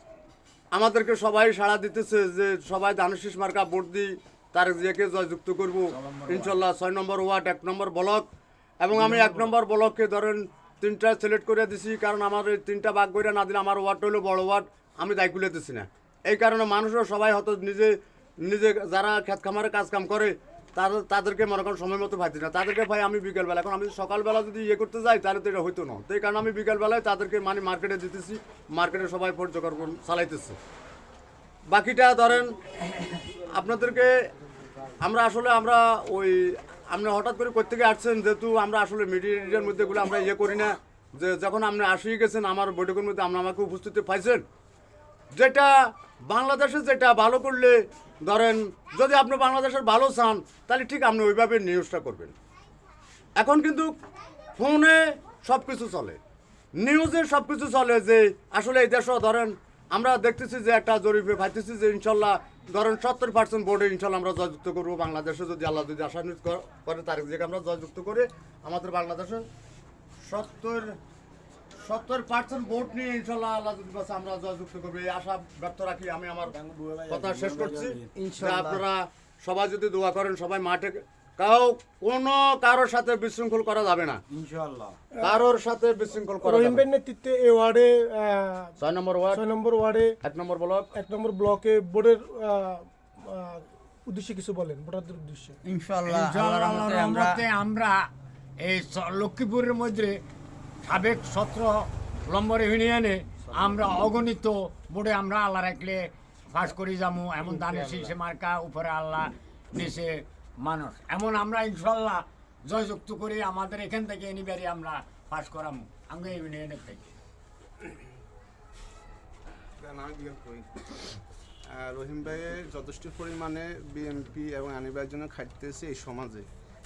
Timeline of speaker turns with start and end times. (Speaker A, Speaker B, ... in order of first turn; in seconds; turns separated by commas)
Speaker A: 0.7-8.3, Speaker B: 6.0-6.5, Speaker A: 8.8-30.6, Speaker A: 31.7-32.5, Speaker A: 33.3-34.1, Speaker A: 35.0-44.4, Speaker A: 45.3-45.7, Speaker A: 46.2-52.3, Speaker A: 53.4-53.9, Speaker A: 54.6-56.2, Speaker A: 56.8-69.4, Speaker A: 70.2-71.0, Speaker A: 71.8-76.5, Speaker C: 76.6-78.8, Speaker A: 77.1-84.2, Speaker C: 84.4-84.9, Speaker A: 85.2-86.8, Speaker D: 86.4-88.8, Speaker A: 88.8-89.4, Speaker D: 89.3-90.2, Speaker A: 90.2-90.9, Speaker D: 90.9-95.6, Speaker C: 95.7-97.4, Speaker B: 96.1-98.1, Speaker B: 98.6-100.2, Speaker B: 100.8-117.1, Speaker E: 119.8-120.7, Speaker E: 121.7-126.5